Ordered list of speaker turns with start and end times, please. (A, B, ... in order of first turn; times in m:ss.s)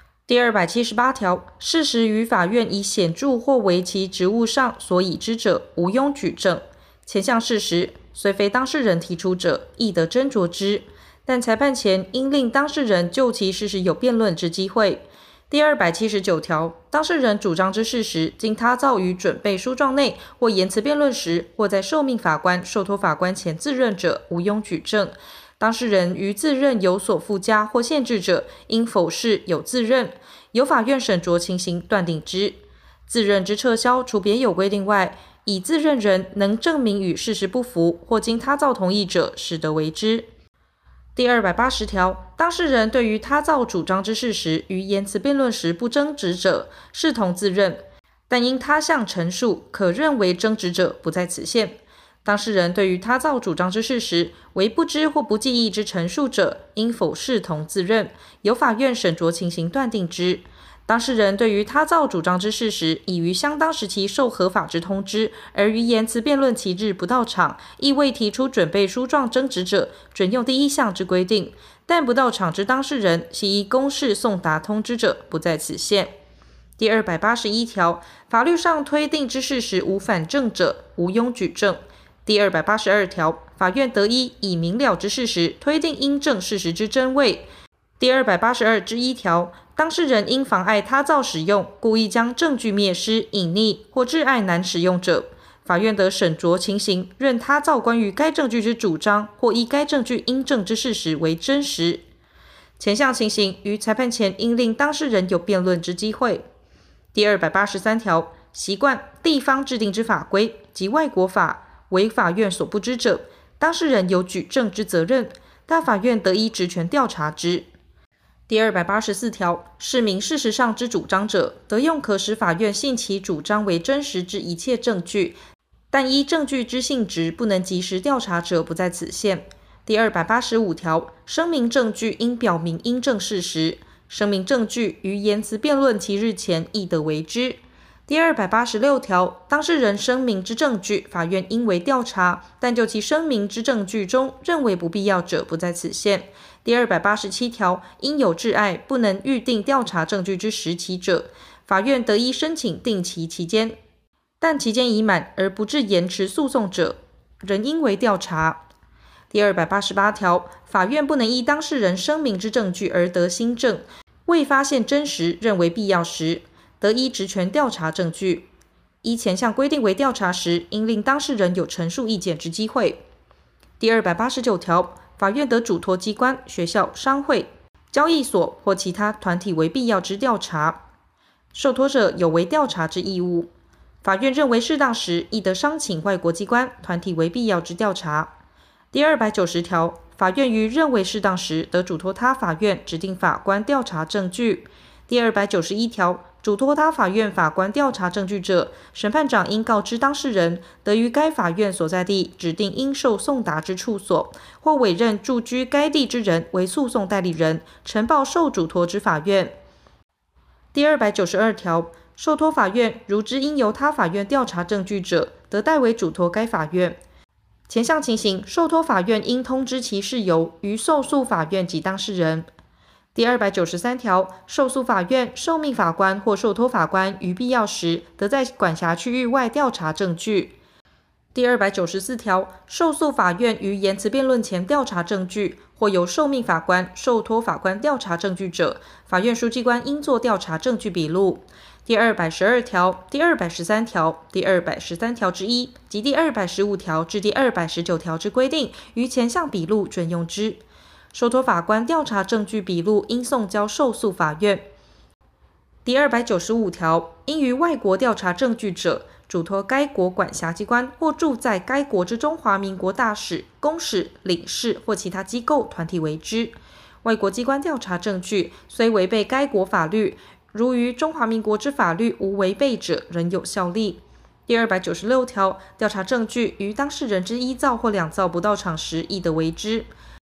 0:00.3-0:40.3 A
0:41.2-1:16.1 A
1:16.8-1:27.5 A
1:28.0-1:42.0 A
1:42.8-1:46.5 A
1:47.1-1:57.7 A
1:58.5-2:05.4 A
2:05.9-2:33.8 A
2:34.4-2:38.6 A
2:39.3-2:48.5 A
2:49.0-2:53.0 A
2:53.8-3:00.8 A
3:01.5-3:03.5 A
3:04.0-3:08.3 A
3:08.9-3:29.6 A
3:30.7-3:37.0 A
3:37.7-3:42.5 A
3:43.1-3:50.6 A
3:51.3-4:10.6 A
4:11.1-4:14.7 A
4:15.8-4:39.9 A